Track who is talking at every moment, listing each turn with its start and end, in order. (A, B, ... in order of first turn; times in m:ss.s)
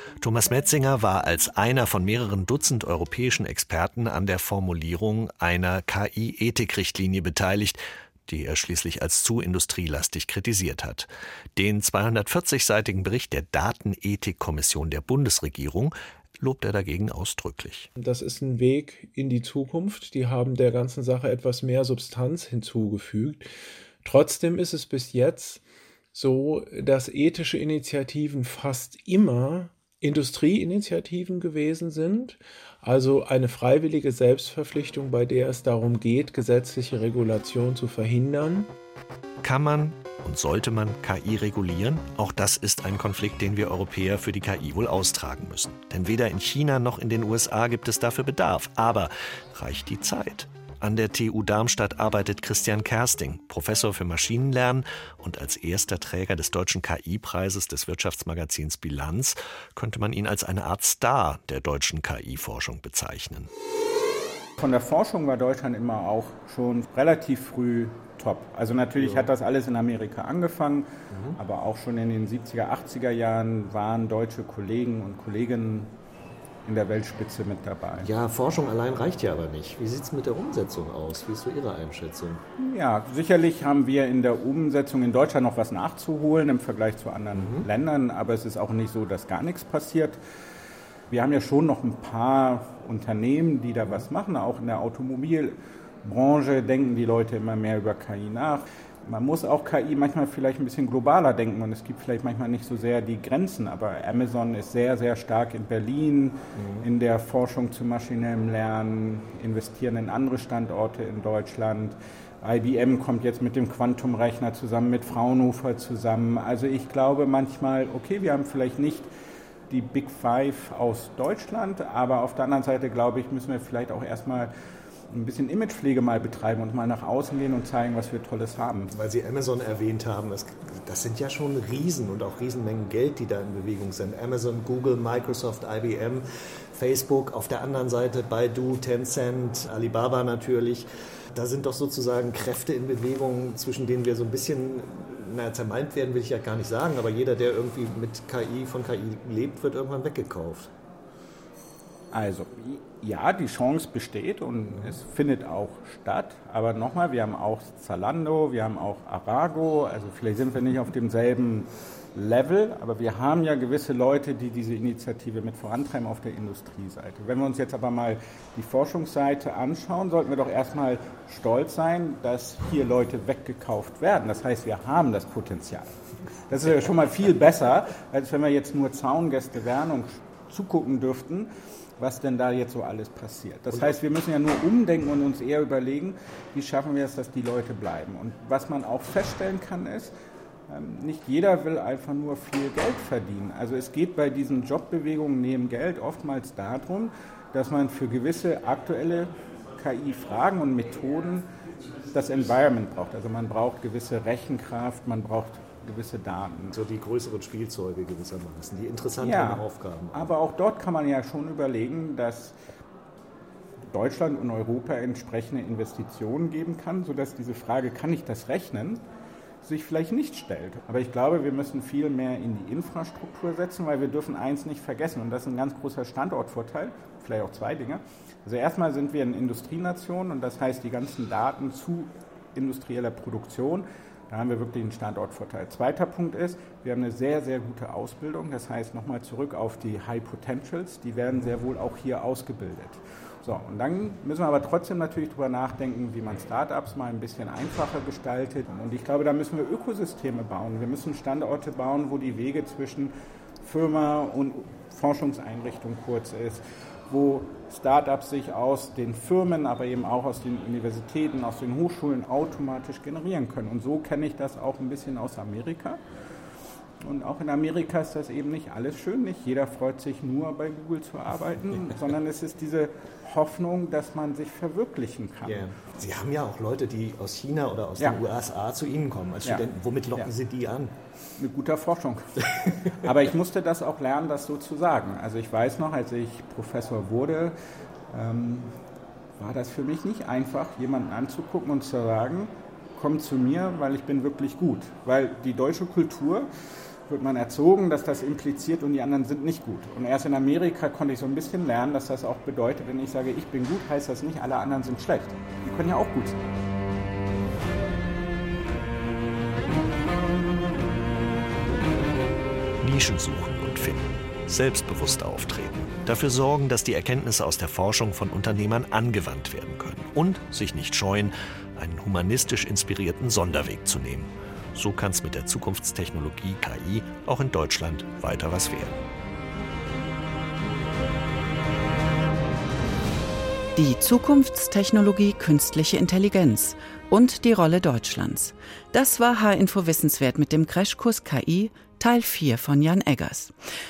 0:00.2-0:17.9 A
0:18.0-0:23.5 B
0:24.0-0:25.6 B
0:26.1-0:38.7 B
0:39.4-1:03.5 A
1:04.6-1:15.9 C
1:09.0-1:09.3 A
1:11.1-1:11.4 A
1:16.6-1:18.1 C
1:18.0-1:22.4 A
1:22.6-1:30.2 C
1:27.3-1:27.7 A
1:31.1-1:59.1 C
1:46.6-1:46.9 A
1:59.7-2:04.5 C
2:05.1-2:08.9 C
2:08.9-2:16.2 A
2:16.7-2:30.7 A
2:32.1-2:55.9 C
2:56.5-3:10.1 C
3:10.7-3:21.5 C
3:22.1-3:26.7 C
3:26.7-3:30.3 A
3:29.2-3:32.6 C
3:33.9-3:39.0 C
3:39.6-4:26.0 C
4:27.0-4:35.7 C
4:35.4-4:40.9 A
4:39.4-4:40.3 C
4:41.4-4:47.6 C
4:48.1-4:48.7 C
4:49.4-4:56.5 C
4:57.1-5:06.4 C
5:12.8-5:29.0 A
5:33.8-5:43.5 D